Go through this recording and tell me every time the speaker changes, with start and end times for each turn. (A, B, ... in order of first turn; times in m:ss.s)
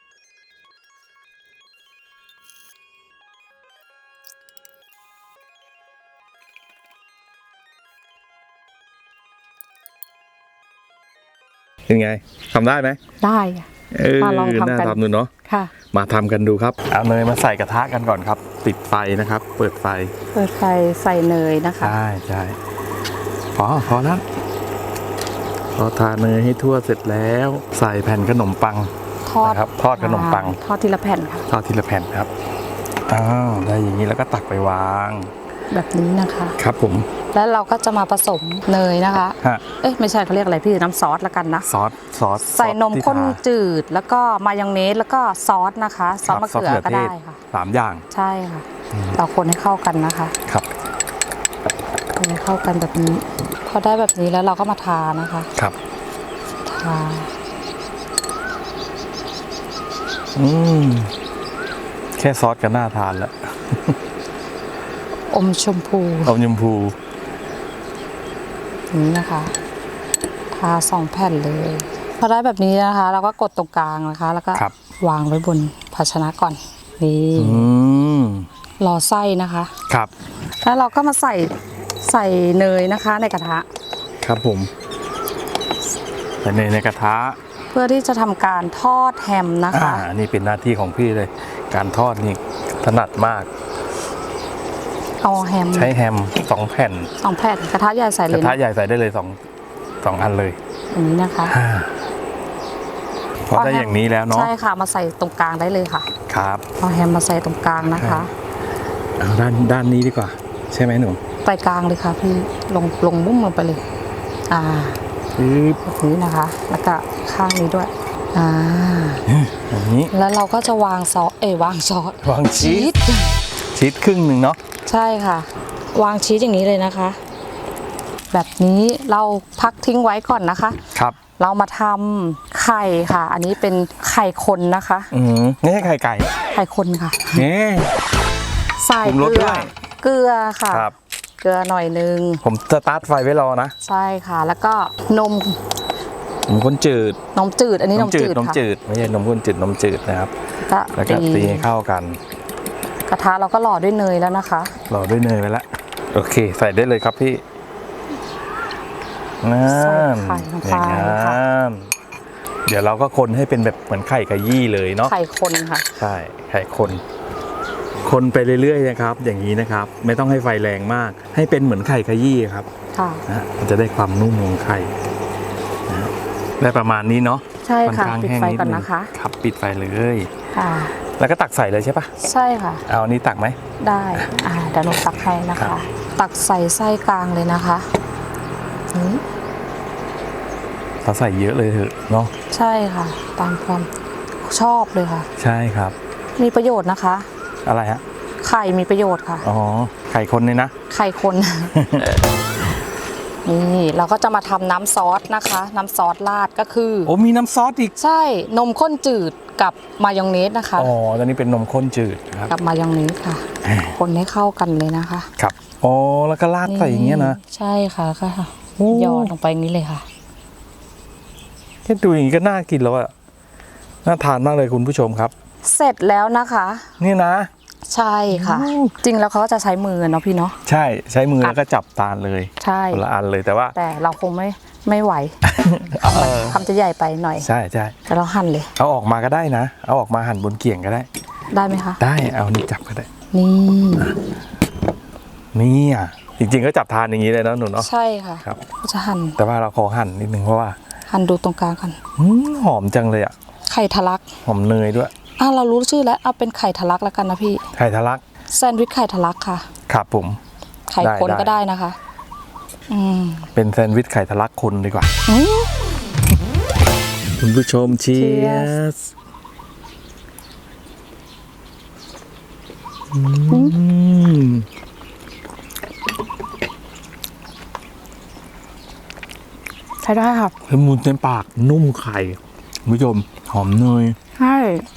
0:11.9-0:13.0 A
0:13.2-0:15.7 B
0:13.9-0:15.3 A
0:15.9-0:20.2 A
0:20.3-0:22.0 B
0:21.8-0:22.6 A
0:23.6-0:24.2 A
0:25.8-0:30.6 A
0:29.3-0:31.5 B
0:31.5-0:32.3 A
0:33.1-0:35.3 A
0:35.7-0:36.6 B
0:36.6-0:37.1 A
0:37.3-0:41.7 B
0:41.6-0:43.4 A
0:42.4-0:47.4 B
0:46.3-0:48.1 A
0:48.1-0:50.4 B
0:48.9-0:49.2 A
0:52.2-0:55.5 B
0:56.7-0:57.3 B
1:00.4-1:01.1 A
1:02.2-1:04.0 A
1:05.3-1:06.4 B
1:06.2-1:07.0 A
1:08.9-1:09.5 B
1:10.5-1:17.7 B
1:17.4-1:18.5 A
1:18.8-1:19.7 B
1:20.6-1:23.7 B
1:24.2-1:24.7 A
1:26.4-1:27.4 A
1:27.7-1:30.1 B
1:29.7-1:33.5 A
1:35.2-1:36.0 B
1:35.7-1:37.1 A
1:37.2-1:38.6 B
1:38.3-1:39.4 A
1:40.0-1:40.6 A
1:40.9-1:41.6 B
1:41.5-1:42.0 A
1:43.5-1:44.5 A
1:43.5-1:46.1 B
1:46.3-1:46.6 A
1:46.8-1:48.3 B
1:47.8-1:48.3 A
1:49.2-1:51.2 A
1:51.4-1:53.8 B
1:54.5-1:55.0 B
1:55.4-1:55.8 A
1:55.8-1:59.2 B
1:59.3-2:00.1 A
2:00.1-2:03.4 B
2:02.2-2:02.9 A
2:03.7-2:04.6 A
2:04.9-2:07.2 B
2:08.3-2:15.1 B
2:15.1-2:16.3 A
2:16.5-2:17.4 B
2:17.3-2:17.9 A
2:18.8-2:22.4 B
2:19.0-2:19.7 A
2:20.7-2:21.0 A
2:22.4-2:23.7 A
2:23.8-2:25.6 B
2:26.5-2:27.2 A
2:27.3-2:28.6 B
2:28.0-2:30.3 A
2:30.6-2:31.7 B
2:31.0-2:32.2 A
2:33.1-2:34.8 B
2:34.9-2:37.4 A
2:39.4-2:41.9 A
2:39.7-2:41.4 B
2:42.7-2:45.1 A
2:45.0-2:45.9 B
2:46.0-2:47.0 A
2:48.0-2:52.7 A
2:52.9-2:53.2 B
2:53.3-2:55.0 A
2:55.9-3:00.3 A
2:57.6-2:59.1 B
3:00.6-3:01.0 B
3:01.2-3:02.1 A
3:02.2-3:02.8 B
3:02.9-3:03.6 A
3:03.8-3:07.9 B
3:08.9-3:09.2 B
3:11.0-3:12.3 A
3:12.5-3:13.9 B
3:14.4-3:15.3 B
3:15.4-3:16.0 A
3:16.4-3:17.3 B
3:17.6-3:18.0 A
3:18.4-3:19.5 B
3:19.4-3:20.7 A
3:20.9-3:22.0 B
3:21.7-3:22.2 A
3:23.4-3:27.1 B
3:27.1-3:27.9 A
3:28.0-3:30.9 B
3:30.8-3:32.5 A
3:32.5-3:35.3 B
3:33.6-3:34.0 A
3:35.4-3:37.4 A
3:36.7-3:40.1 B
3:38.8-3:39.3 A
3:41.9-3:43.1 A
3:44.0-3:45.3 A
3:45.6-3:46.9 B
3:47.0-3:47.5 A
3:47.9-3:50.6 B
3:48.3-3:49.0 A
3:50.6-3:53.8 A
3:52.6-3:53.0 B
3:53.8-3:55.4 B
3:55.4-3:56.6 A
3:56.0-3:57.5 B
3:57.4-3:58.0 A
3:58.1-3:58.7 B
3:58.8-4:01.1 A
4:01.5-4:02.0 B
4:02.0-4:03.1 A
4:03.3-4:04.2 B
4:05.5-4:07.9 A
4:07.8-4:09.4 B
4:09.4-4:10.8 A
4:11.1-4:12.0 B
4:12.2-4:13.3 A
4:13.7-4:14.3 B
4:14.4-4:15.1 A
4:15.4-4:17.6 B
4:17.7-4:18.2 A
4:18.5-4:19.7 B
4:19.9-4:20.4 A
4:20.9-4:22.0 B
4:21.0-4:21.6 A
4:22.9-4:23.5 B
4:23.5-4:25.1 A
4:25.3-4:25.7 B
4:27.4-4:29.1 A
4:28.1-4:28.8 B
4:33.1-4:34.7 A
4:33.5-4:33.8 B
4:40.0-4:40.6 B
4:40.7-4:44.2 A
4:44.4-4:44.9 B